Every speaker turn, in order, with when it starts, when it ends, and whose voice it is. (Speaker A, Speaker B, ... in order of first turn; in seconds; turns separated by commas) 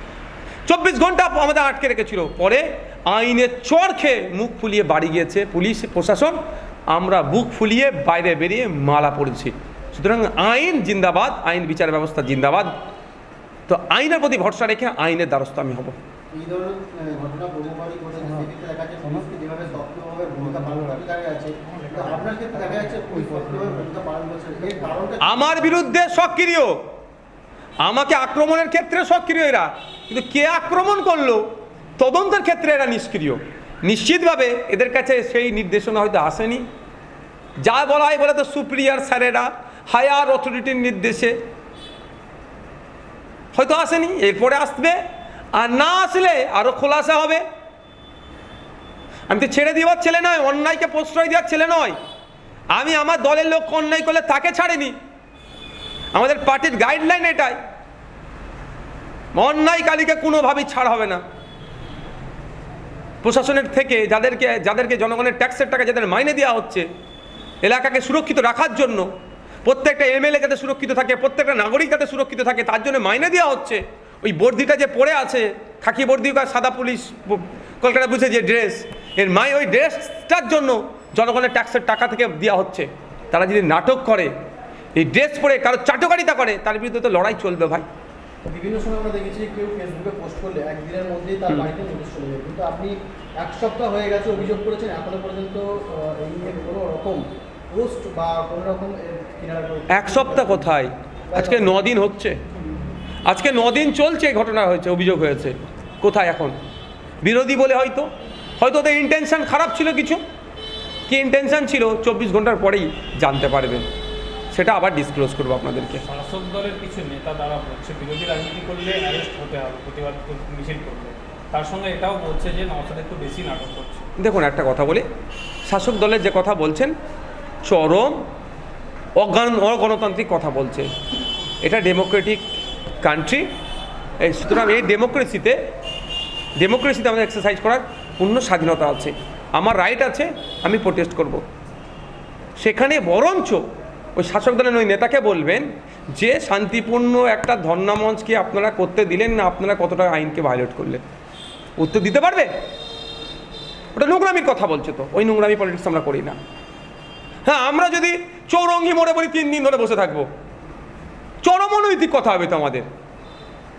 Speaker A: 0.7-6.4, Speaker A: 6.9-12.7, Speaker A: 13.7-15.9, Speaker B: 16.3-25.7, Speaker A: 25.2-26.9, Speaker A: 27.8-36.6, Speaker A: 37.6-41.4, Speaker A: 43.5-45.0, Speaker A: 45.5-47.4, Speaker A: 49.3-52.0, Speaker A: 52.7-55.0, Speaker A: 56.1-57.6, Speaker A: 59.3-61.2, Speaker A: 63.2-66.8, Speaker A: 67.6-69.1, Speaker A: 69.6-84.3, Speaker A: 85.0-87.8, Speaker C: 88.4-100.7, Speaker A: 99.9-102.4, Speaker C: 101.3-101.8, Speaker A: 103.2-106.5, Speaker A: 107.2-110.2, Speaker A: 111.1-113.8, Speaker A: 114.5-116.0, Speaker D: 116.0-124.0, Speaker A: 124.2-125.0, Speaker A: 125.7-126.9, Speaker A: 127.6-128.2, Speaker A: 129.2-130.9, Speaker A: 131.6-132.4, Speaker A: 133.0-133.5, Speaker A: 134.2-135.6, Speaker A: 136.6-141.4, Speaker A: 142.6-143.6, Speaker A: 144.2-151.0, Speaker A: 151.8-152.5, Speaker A: 153.9-156.4, Speaker A: 157.4-160.3, Speaker A: 161.4-162.9